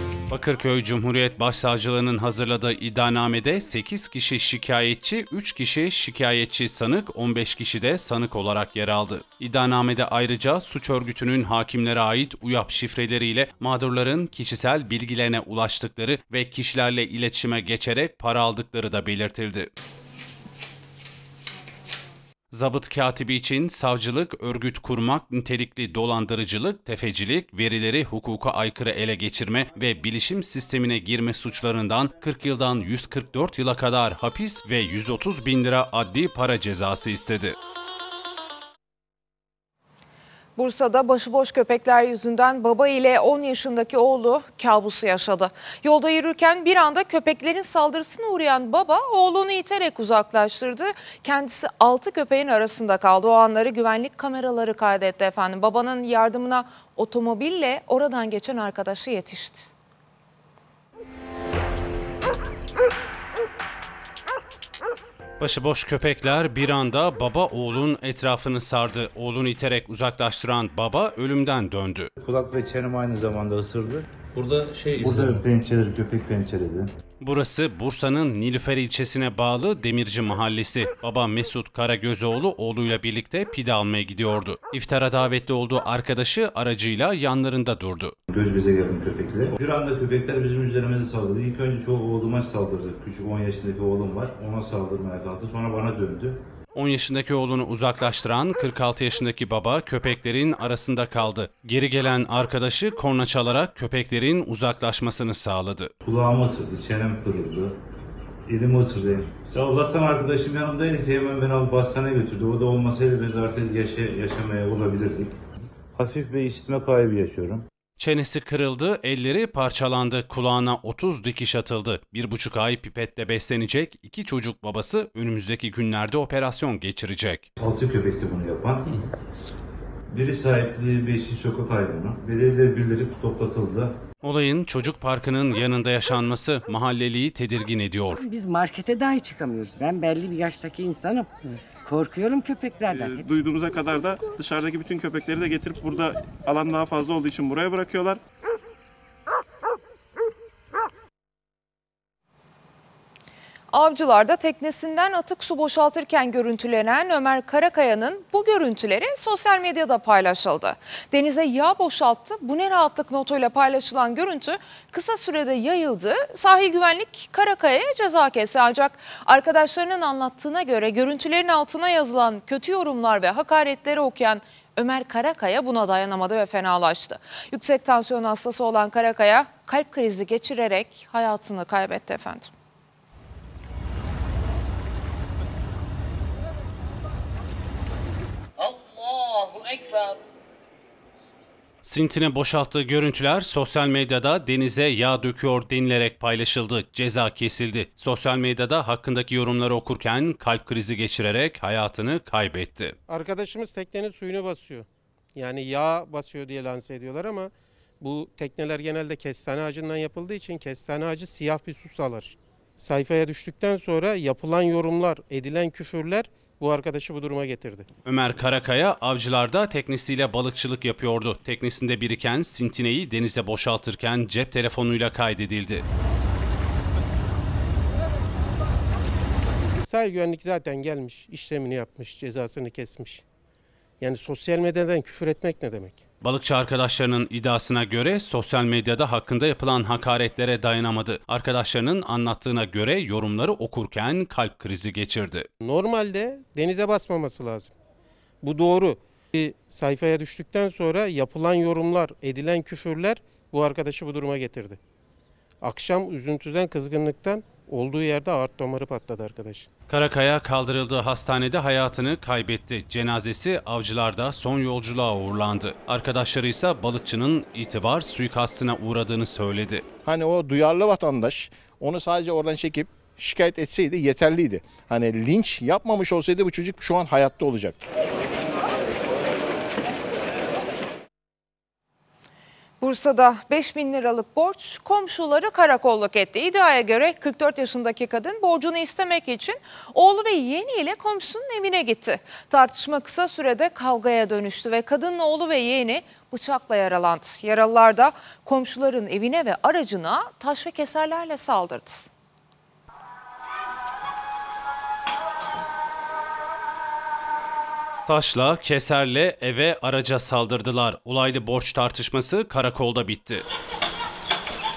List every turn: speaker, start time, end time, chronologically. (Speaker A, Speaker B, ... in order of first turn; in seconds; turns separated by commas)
Speaker A: 0.3-19.7, Speaker A: 22.5-37.5, Speaker B: 40.5-59.7, Speaker A: 65.4-72.1, Speaker C: 72.2-76.9, Speaker A: 77.2-88.1, Speaker C: 88.3-96.4, Speaker A: 96.7-105.9, Speaker C: 106.0-107.8, Speaker C: 108.5-115.4, Speaker C: 115.9-117.7, Speaker A: 118.0-127.5, Speaker C: 127.6-129.1, Speaker C: 130.1-134.0, Speaker A: 134.2-138.2, Speaker D: 138.2-143.3, Speaker E: 142.9-148.2, Speaker B: 153.7-182.5, Speaker A: 191.8-202.9, Speaker F: 203.1-217.9, Speaker A: 218.0-225.8, Speaker F: 229.8-233.2, Speaker F: 234.0-236.0, Speaker A: 236.2-245.5, Speaker F: 245.6-247.7, Speaker F: 248.4-254.8, Speaker F: 255.6-259.7, Speaker A: 259.9-269.9, Speaker G: 270.1-277.8, Speaker B: 282.8-302.1, Speaker A: 308.1-313.4